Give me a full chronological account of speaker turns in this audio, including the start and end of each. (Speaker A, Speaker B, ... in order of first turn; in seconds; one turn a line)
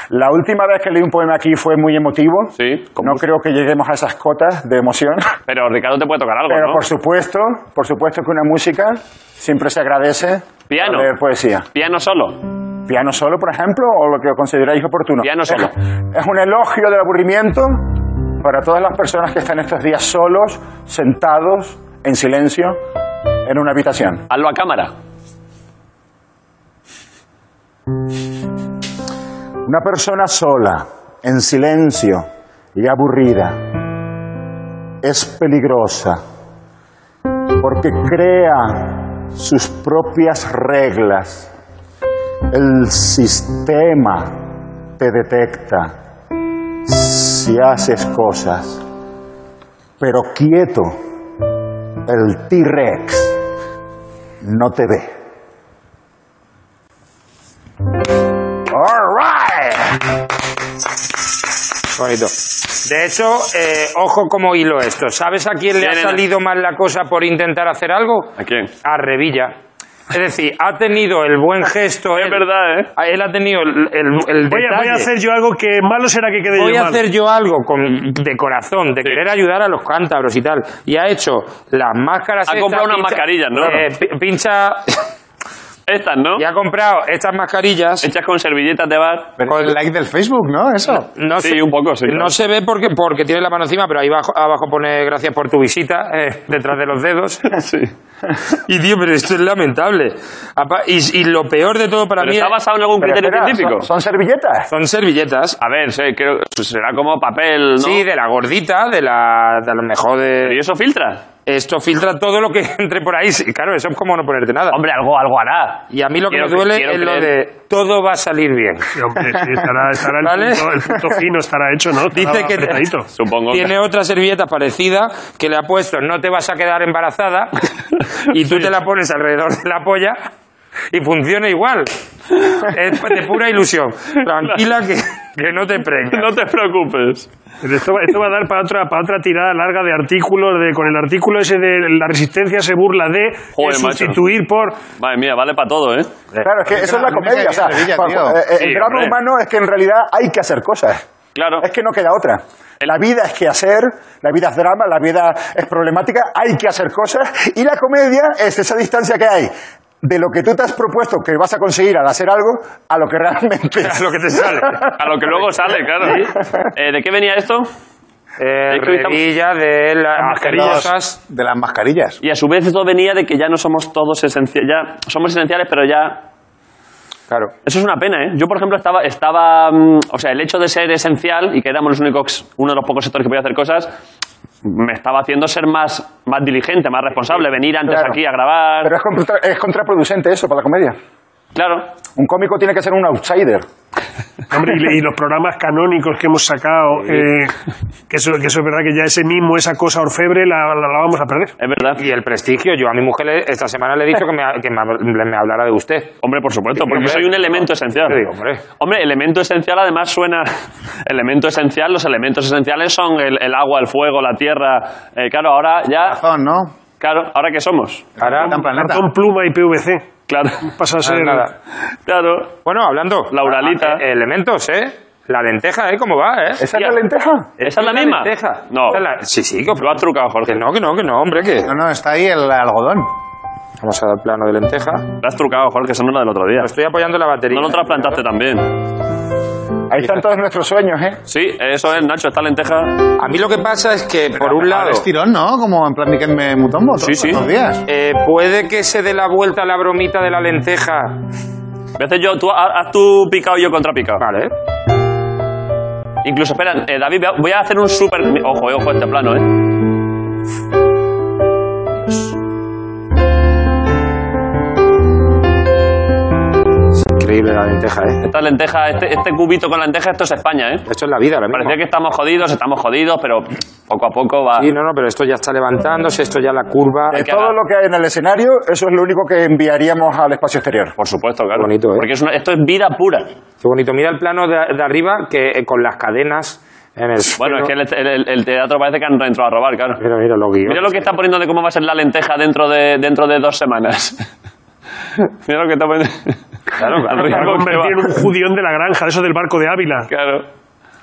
Speaker A: 0.1-5.3
Speaker B: 2.6-3.2
Speaker B: 5.5-6.8
Speaker A: 6.5-11.7
Speaker B: 10.7-11.1
Speaker B: 11.7-12.4
Speaker A: 12.8-17.8
Speaker B: 15.2-15.7
Speaker A: 18.4-22.8
Speaker A: 23.4-24.2
Speaker B: 24.3-24.9
Speaker A: 29.6-33.8
Speaker A: 35.0-36.2
Speaker A: 37.6-41.5
Speaker A: 42.5-44.4
Speaker A: 45.0-45.9
Speaker A: 46.8-48.8
Speaker A: 50.0-51.0
Speaker A: 52.0-53.4
Speaker A: 54.4-55.1
Speaker C: 58.7-59.8
Speaker C: 61.9-68.3
Speaker B: 65.8-66.2
Speaker B: 68.4-68.7
Speaker C: 68.8-69.5
Speaker C: 70.1-72.4
Speaker B: 72.1-72.9
Speaker C: 73.0-75.1
Speaker D: 74.5-77.0
Speaker C: 76.5-85.0
Speaker B: 82.5-83.8
Speaker B: 85.9-86.4
Speaker C: 86.4-88.1
Speaker B: 88.0-89.3
Speaker E: 89.4-91.1
Speaker C: 89.5-89.8
Speaker C: 91.1-97.4
Speaker B: 91.4-92.3
Speaker B: 97.5-97.9
Speaker C: 98.6-102.5
Speaker B: 102.2-103.9
Speaker A: 103.0-104.7
Speaker C: 104.7-105.6
Speaker B: 105.6-108.0
Speaker C: 107.8-110.5
Speaker B: 110.4-111.2
Speaker C: 111.5-114.8
Speaker B: 114.7-117.3
Speaker C: 115.9-118.9
Speaker D: 118.9-123.1
Speaker C: 120.2-120.7
Speaker C: 122.1-122.8
Speaker B: 123.1-123.7
Speaker C: 123.5-127.6
Speaker C: 128.3-130.2
Speaker C: 130.9-131.9
Speaker C: 132.5-136.3
Speaker B: 136.1-137.3
Speaker D: 137.6-144.8
Speaker B: 143.6-144.2
Speaker B: 145.0-146.1
Speaker A: 146.4-151.0
Speaker E: 146.7-148.4
Speaker B: 148.6-149.2
Speaker B: 151.3-151.6
Speaker A: 151.6-165.0
Speaker C: 163.8-164.8
Speaker B: 165.0-167.7
Speaker A: 166.1-166.6
Speaker C: 168.4-171.2
Speaker B: 168.7-169.2
Speaker B: 170.3-170.8
Speaker E: 170.4-172.2
Speaker B: 172.2-176.2
Speaker B: 177.6-183.9
Speaker B: 184.6-188.9
Speaker A: 187.9-188.2
Speaker A: 188.8-190.9
Speaker B: 191.5-191.9
Speaker A: 192.2-193.6
Speaker D: 194.5-197.5
Speaker D: 198.1-201.5
Speaker B: 201.6-202.0
Speaker C: 202.0-206.1
Speaker B: 206.2-208.2
Speaker C: 206.8-208.6
Speaker B: 208.8-210.5
Speaker B: 211.0-216.2
Speaker E: 216.0-216.7
Speaker B: 217.0-218.1
Speaker E: 218.2-219.1
Speaker C: 218.2-218.6
Speaker D: 218.5-220.1
Speaker B: 220.3-220.7
Speaker D: 220.6-221.5
Speaker C: 221.0-221.5
Speaker B: 222.1-222.5
Speaker C: 222.7-227.0
Speaker B: 223.3-224.0
Speaker A: 226.6-227.5
Speaker C: 227.6-231.7
Speaker B: 227.6-229.0
Speaker B: 229.8-230.6
Speaker E: 231.6-233.1
Speaker C: 233.8-235.1
Speaker B: 235.2-236.7
Speaker C: 236.6-238.2
Speaker B: 237.5-238.7
Speaker A: 239.9-241.2
Speaker B: 241.3-243.1
Speaker C: 243.2-245.0
Speaker E: 244.3-247.8
Speaker B: 247.0-247.4
Speaker C: 247.9-251.2
Speaker B: 252.0-254.2
Speaker C: 254.2-254.5
Speaker B: 256.2-259.5
Speaker C: 267.0-268.2
Speaker B: 268.2-270.8
Speaker C: 270.9-271.8
Speaker B: 271.5-274.7
Speaker C: 274.6-277.1
Speaker A: 277.1-280.9
Speaker B: 277.1-277.6
Speaker B: 281.0-283.3
Speaker C: 281.5-282.1
Speaker C: 283.6-287.7
Speaker B: 287.4-290.0
Speaker C: 290.0-291.1
Speaker B: 290.6-294.2
Speaker B: 295.2-296.4
Speaker C: 296.8-297.6
Speaker B: 296.9-298.1
Speaker D: 297.1-300.1
Speaker B: 300.1-300.5